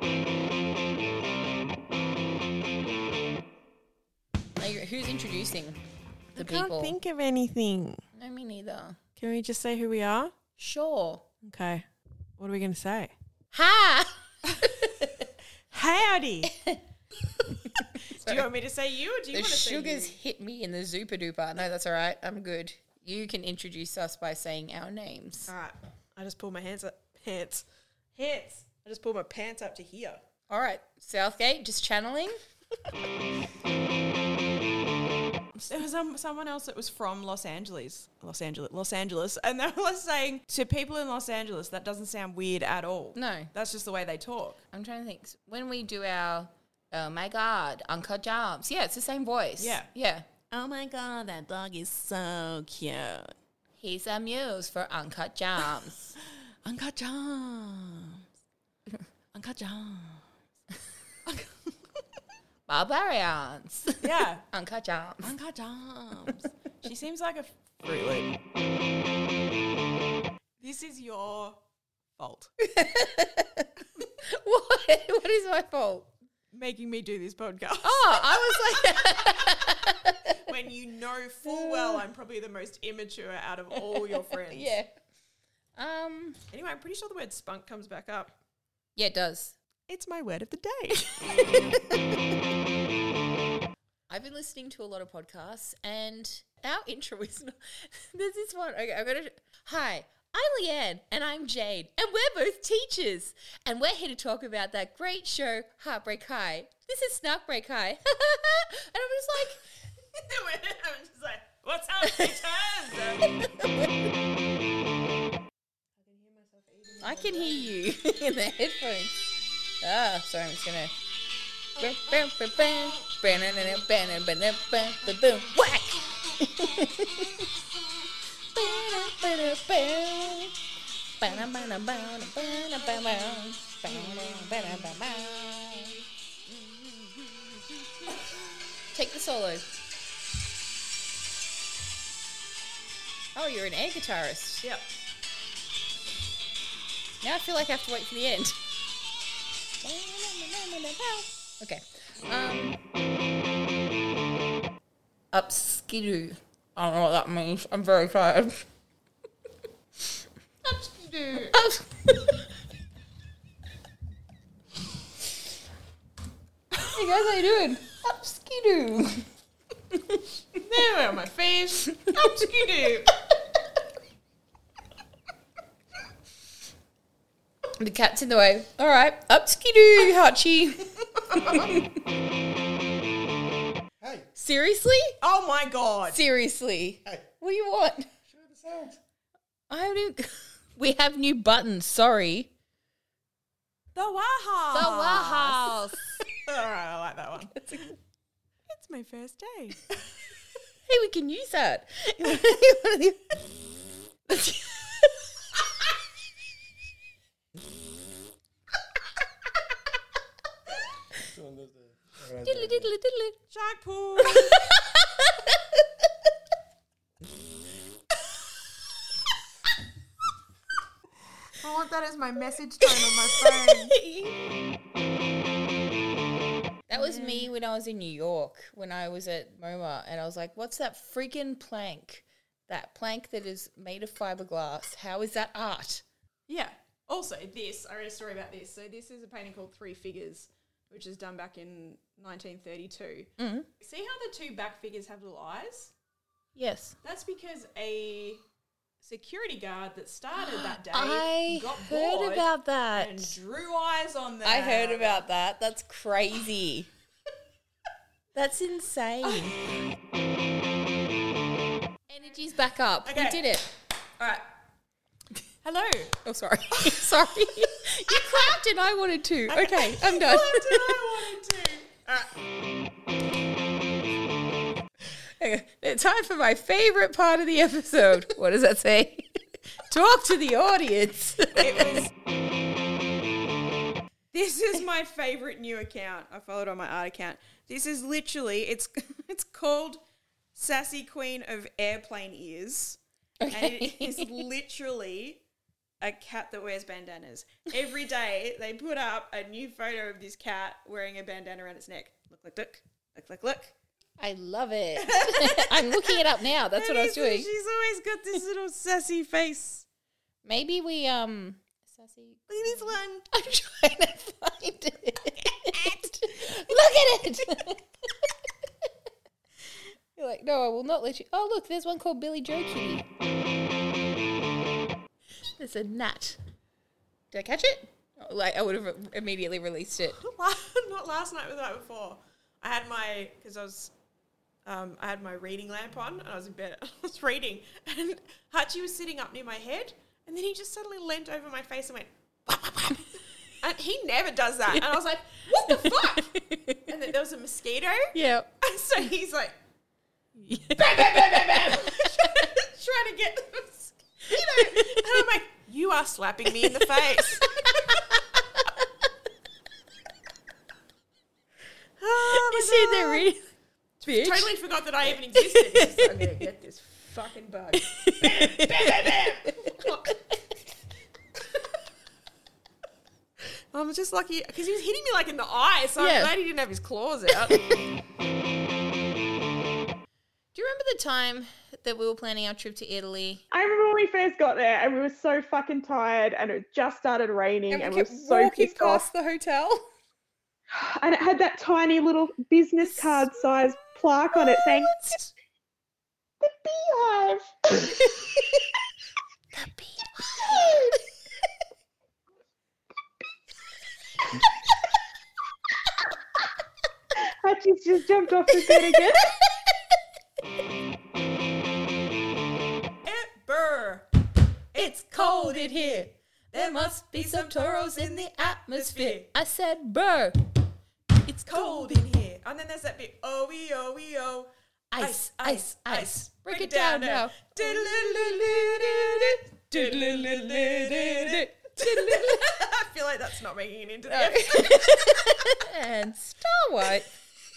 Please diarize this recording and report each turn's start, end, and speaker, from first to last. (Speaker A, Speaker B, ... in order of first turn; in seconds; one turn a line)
Speaker A: 4.6-5.8
Speaker A: 6.3-7.0
Speaker B: 6.3-8.0
Speaker A: 8.2-9.0
Speaker B: 9.2-10.3
Speaker A: 10.6-11.2
Speaker B: 11.4-11.8
Speaker B: 12.4-13.1
Speaker A: 13.5-15.3
Speaker B: 15.7-16.5
Speaker A: 16.5-16.8
Speaker A: 17.6-18.5
Speaker B: 18.1-20.2
Speaker A: 19.3-25.5
Speaker B: 25.5-30.2
Speaker A: 30.5-32.4
Speaker B: 35.6-44.6
Speaker A: 43.1-43.5
Speaker A: 44.7-50.3
Speaker B: 49.6-49.9
Speaker B: 50.5-53.3
Speaker A: 53.8-56.2
Speaker B: 56.5-58.2
Speaker B: 59.3-60.2
Speaker B: 61.2-61.6
Speaker A: 62.6-65.3
Speaker B: 64.0-64.5
Speaker B: 65.2-68.3
Speaker B: 70.6-71.6
Speaker B: 72.2-72.5
Speaker A: 72.6-76.1
Speaker B: 76.5-79.8
Speaker A: 77.8-80.3
Speaker B: 80.4-84.8
Speaker A: 81.4-82.0
Speaker A: 83.8-84.9
Speaker A: 85.8-86.4
Speaker B: 86.5-88.3
Speaker A: 89.0-89.6
Speaker B: 89.9-91.8
Speaker A: 91.3-92.2
Speaker A: 94.1-109.6
Speaker B: 110.1-113.3
Speaker A: 113.4-114.0
Speaker B: 116.0-117.8
Speaker A: 117.0-119.3
Speaker A: 119.8-120.9
Speaker A: 121.8-127.5
Speaker A: 128.5-130.5
Speaker A: 131.2-137.8
Speaker B: 133.9-134.5
Speaker A: 138.9-139.7
Speaker A: 143.3-144.7
Speaker A: 147.2-148.6
Speaker A: 149.8-152.8
Speaker A: 155.3-158.6
Speaker B: 160.6-161.5
Speaker A: 161.5-162.4
Speaker A: 166.8-169.2
Speaker A: 169.9-170.2
Speaker B: 170.6-173.2
Speaker A: 177.8-181.8
Speaker B: 181.2-181.8
Speaker C: 184.0-184.3
Speaker A: 184.3-185.1
Speaker B: 185.2-186.2
Speaker A: 186.1-188.1
Speaker C: 188.3-189.0
Speaker A: 189.7-192.5
Speaker B: 193.9-197.9
Speaker A: 194.7-196.2
Speaker A: 197.5-197.9
Speaker B: 198.7-200.0
Speaker A: 200.8-203.3
Speaker A: 204.3-205.1
Speaker C: 211.3-212.9
Speaker A: 212.4-213.4
Speaker B: 213.5-214.6
Speaker A: 214.2-215.5
Speaker B: 221.6-223.9
Speaker A: 223.0-224.4
Speaker A: 226.9-236.0
Speaker B: 226.9-227.5
Speaker B: 236.5-245.9
Speaker A: 243.4-243.7
Speaker A: 246.5-246.9
Speaker B: 247.0-248.4
Speaker B: 249.0-255.2
Speaker A: 250.3-253.4
Speaker A: 254.4-256.9
Speaker A: 258.3-259.7
Speaker B: 259.2-259.7
Speaker A: 262.1-263.7
Speaker B: 263.0-263.4
Speaker B: 264.2-264.4
Speaker B: 265.6-266.2
Speaker A: 266.2-271.0
Speaker B: 266.8-267.2
Speaker B: 269.5-272.4
Speaker A: 275.2-279.3
Speaker A: 279.9-282.0
Speaker B: 281.5-282.1
Speaker B: 284.3-290.0
Speaker B: 290.5-293.0
Speaker A: 293.4-294.4
Speaker B: 293.5-295.4
Speaker B: 296.0-303.8
Speaker A: 304.2-307.5
Speaker B: 305.0-309.9
Speaker A: 310.4-318.3
Speaker B: 312.5-313.3
Speaker B: 315.4-316.1
Speaker A: 320.1-323.0
Speaker A: 325.6-326.4
Speaker A: 327.3-330.2
Speaker B: 330.0-333.9
Speaker B: 334.6-346.3
Speaker A: 344.7-344.9
Speaker A: 345.6-346.9
Speaker B: 346.9-349.6
Speaker A: 348.1-348.5
Speaker A: 350.4-352.4
Speaker B: 350.5-358.0
Speaker A: 354.3-355.2
Speaker A: 356.5-358.8
Speaker B: 362.0-363.3
Speaker A: 362.2-363.4
Speaker B: 364.0-370.2
Speaker A: 364.0-364.5
Speaker A: 365.1-366.1
Speaker A: 367.8-369.9
Speaker C: 368.3-369.1
Speaker B: 373.7-377.5
Speaker A: 376.0-376.3
Speaker A: 377.4-377.8
Speaker A: 380.5-383.4
Speaker B: 383.5-389.1
Speaker A: 387.7-389.9
Speaker B: 390.7-395.0
Speaker A: 392.8-395.3
Speaker B: 396.4-398.2
Speaker A: 399.5-400.8
Speaker B: 400.4-400.9
Speaker B: 407.1-409.3
Speaker A: 408.6-409.3
Speaker B: 413.0-414.1
Speaker B: 414.7-419.3
Speaker A: 414.7-420.5
Speaker A: 421.2-422.0
Speaker B: 421.4-435.3
Speaker A: 424.9-432.6
Speaker A: 434.1-437.1